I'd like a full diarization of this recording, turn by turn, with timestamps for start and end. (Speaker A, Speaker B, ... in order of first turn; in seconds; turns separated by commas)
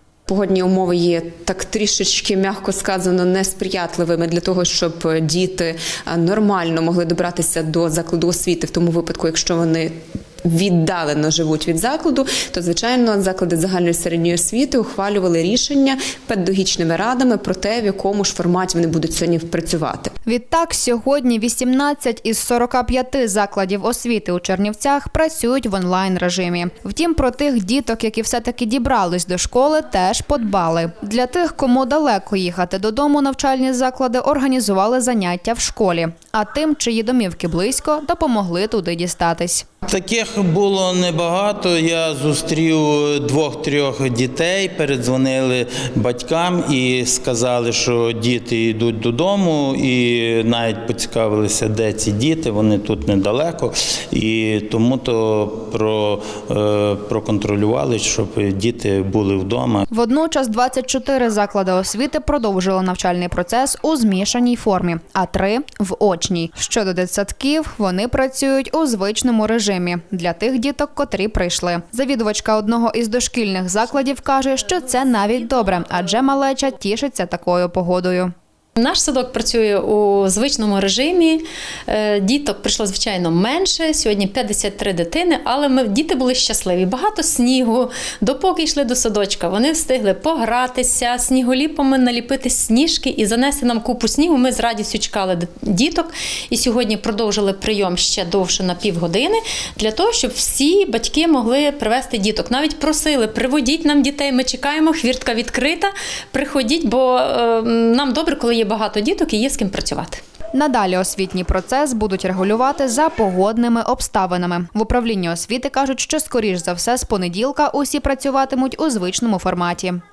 Speaker A: 0.3-20.1, Speaker B: 20.2-39.7, Speaker C: 39.9-59.8, Speaker B: 59.9-78.3, Speaker D: 78.8-110.2, Speaker B: 110.5-120.0